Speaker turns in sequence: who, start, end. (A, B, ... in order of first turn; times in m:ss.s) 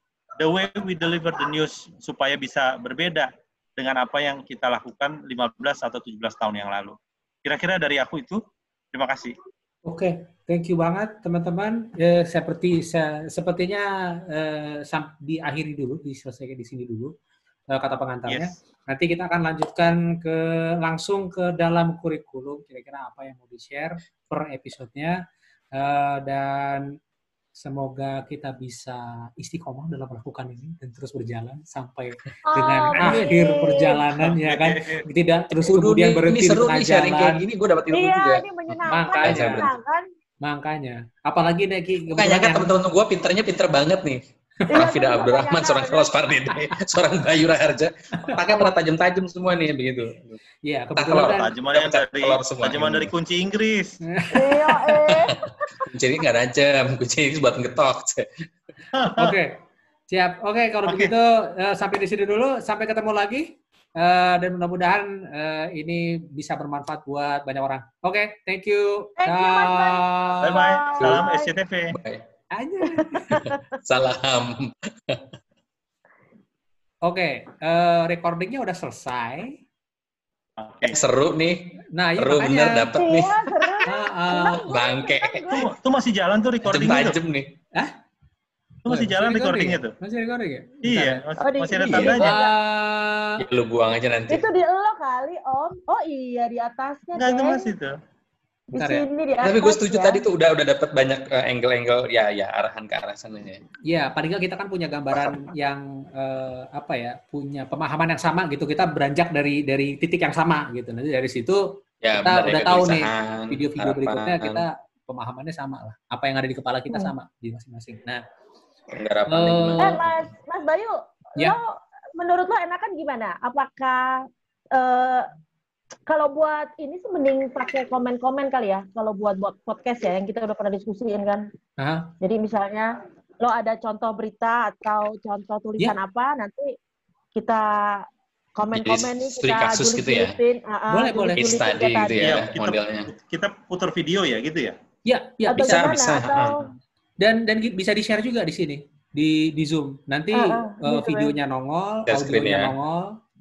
0:00.4-0:08.4 A
0:08.9-0:09.4 A
0:09.8-0:17.1 B
0:17.7-0:25.2 B
0:25.8-0:26.8 B
0:27.6-0:37.4 B
0:32.5-0:34.0 C
0:34.1-0:35.0 A
0:35.7-0:39.7 D
0:37.9-0:40.0 C
0:38.9-0:39.7 B
0:40.4-0:42.8 B
0:42.1-0:44.2 D
0:44.7-0:46.3 C
0:44.7-0:50.4 D
0:48.3-0:48.7 B
0:50.6-0:51.6 B
0:51.0-0:53.1 D
0:51.3-0:54.0 A
0:54.1-0:55.1 B
0:54.3-0:55.4 C
0:55.8-0:58.5 D
0:58.9-0:59.4 A
0:59.1-0:59.6 B
1:00.1-1:10.7 B
1:00.9-1:01.1 A
1:09.2-1:11.5 C
1:10.4-1:12.0 A
1:11.0-1:11.2 D
1:11.9-1:12.2 D
1:12.5-1:13.4 B
1:13.0-1:13.6 C
1:13.3-1:15.3 D
1:17.0-1:19.6 B
1:20.6-1:21.0 A
1:20.8-1:23.7 D
1:22.0-1:22.9 B
1:23.0-1:25.7 C
1:23.9-1:24.7 B
1:24.5-1:25.6 D
1:25.5-1:27.2 A
1:26.6-1:27.5 D
1:28.8-1:29.9 A
1:28.9-1:31.2 B
1:30.8-1:32.3 A
1:31.4-1:32.5 C
1:31.9-1:33.4 B
1:33.4-1:34.5 D
1:34.3-1:37.7 C
1:37.2-1:38.0 A
1:38.7-1:40.2 C
1:38.8-1:39.1 B
1:39.4-1:43.6 D
1:43.9-1:51.6 B
1:52.0-1:54.6 D
1:52.1-1:58.2 B
1:58.9-2:00.2 D
1:59.3-2:00.0 B
1:59.8-2:01.6 C
2:02.2-2:04.2 C
2:04.7-2:05.3 C
2:06.1-2:11.4 C
2:11.8-2:12.1 B
2:12.2-2:16.7 C
2:17.3-2:18.0 C
2:18.6-2:22.4 C
2:18.7-2:20.4 D
2:20.9-2:21.5 B
2:21.4-2:23.1 D
2:22.2-2:24.8 A
2:25.1-2:25.9 B
2:25.5-2:26.6 C
2:25.6-2:26.6 D
2:27.2-2:33.1 B
2:30.3-2:31.3 C
2:32.1-2:32.8 D